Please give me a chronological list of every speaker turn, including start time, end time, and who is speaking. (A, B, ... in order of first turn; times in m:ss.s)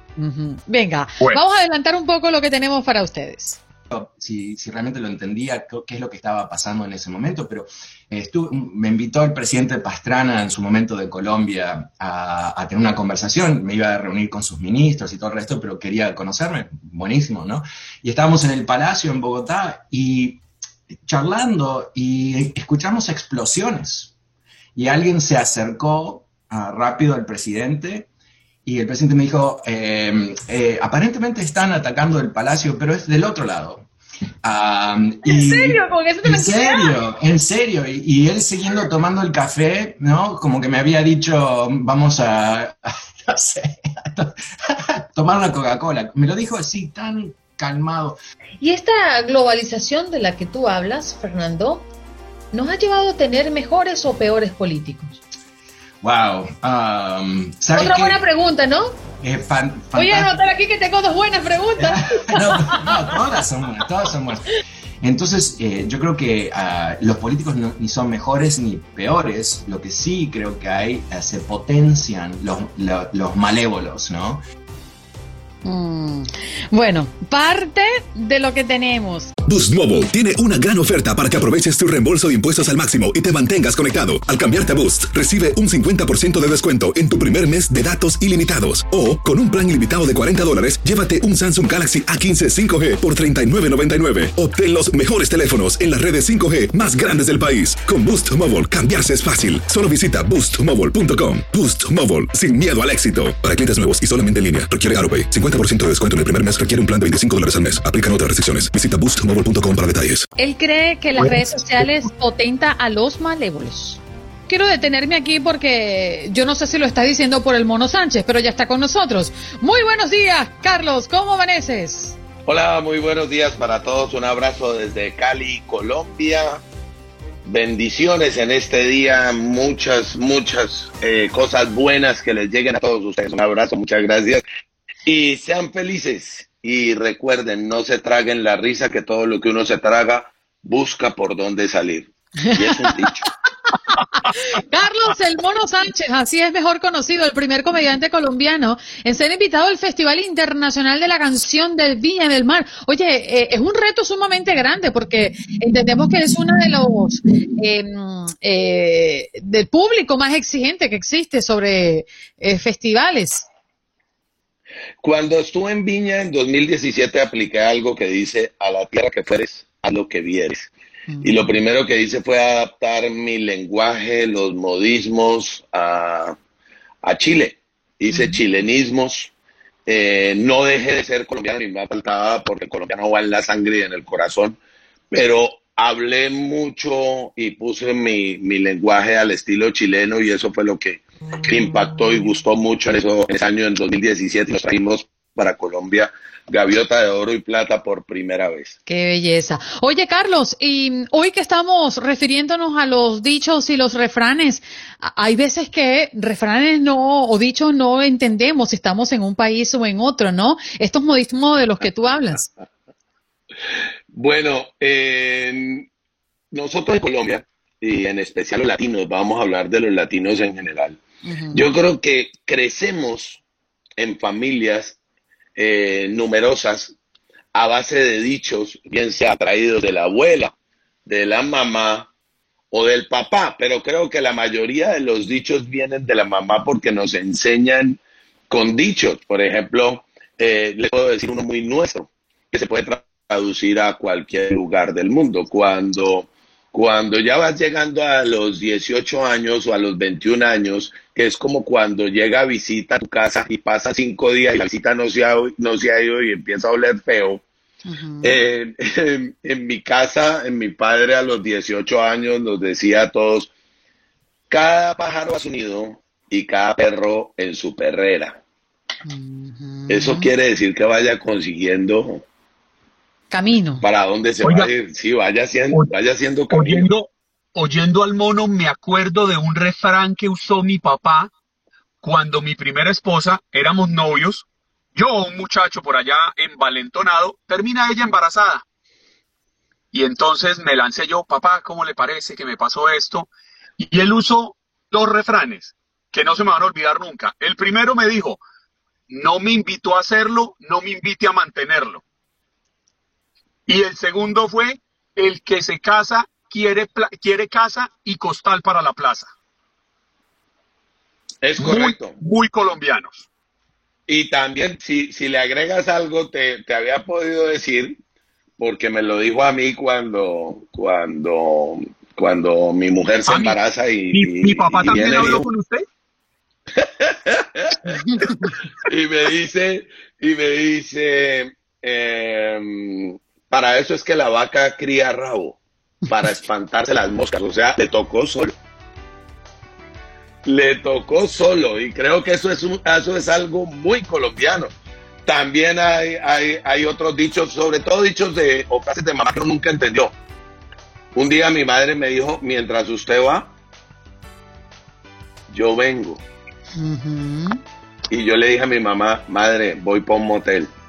0:00.2-0:03.6 A
0:03.9-0:20.4 B
0:21.0-0:24.1 B
0:24.8-0:28.1 B
0:28.6-0:33.9 B
0:34.4-0:48.2 B
0:35.2-0:36.9 A
0:48.6-0:51.9 A
0:52.5-0:55.2 A
0:56.0-0:58.2 B
0:57.7-0:58.9 A
0:59.2-1:00.4 B
1:00.0-1:03.0 A
1:01.8-1:04.5 B
1:05.0-1:14.4 B
1:15.6-1:19.3 A
1:19.5-1:50.2 C
1:50.4-2:02.2 A
2:02.5-2:06.6 D
2:07.5-2:14.4 D
2:15.0-2:23.3 D
2:22.4-2:23.1 A
2:24.2-2:43.5 A
2:45.0-2:50.7 D
2:51.1-2:51.6 A
2:51.2-2:56.4 D
2:57.0-2:59.3 D
2:58.1-2:58.4 A
2:59.9-3:04.6 D
3:05.1-3:18.8 D
3:11.4-3:12.0 A
3:18.9-3:32.5 A
3:34.1-3:35.9 D
3:36.5-3:41.0 D
3:41.2-3:41.6 A
3:41.5-3:43.4 D
3:44.0-3:45.0 D
3:45.6-3:46.9 D
3:47.5-3:50.5 D
3:51.1-3:52.1 D
3:52.7-3:58.0 D
3:58.5-4:17.4 D
4:17.9-4:18.4 A
4:18.2-4:23.5 D
4:24.5-4:28.4 D
4:29.1-4:30.3 A
4:29.9-4:32.2 D
4:33.3-4:33.8 A
4:33.8-4:36.9 D
4:34.4-4:34.7 E
4:36.5-4:41.3 E
4:42.0-4:48.6 E
4:49.9-4:58.4 E
4:59.1-5:02.0 E
5:03.7-5:09.3 E
5:11.4-5:12.2 D
5:11.6-5:13.3 E
5:14.1-5:18.0 D
5:18.6-5:25.4 D
5:23.3-5:23.6 E
5:24.1-5:25.8 E
5:26.8-5:28.3 D
5:27.9-5:28.5 A
5:28.8-5:38.5 D
5:40.4-5:44.7 D
5:45.3-5:50.1 D
5:51.1-5:53.5 D
5:55.5-5:56.2 D
5:56.7-5:57.6 A
5:58.1-6:00.7 D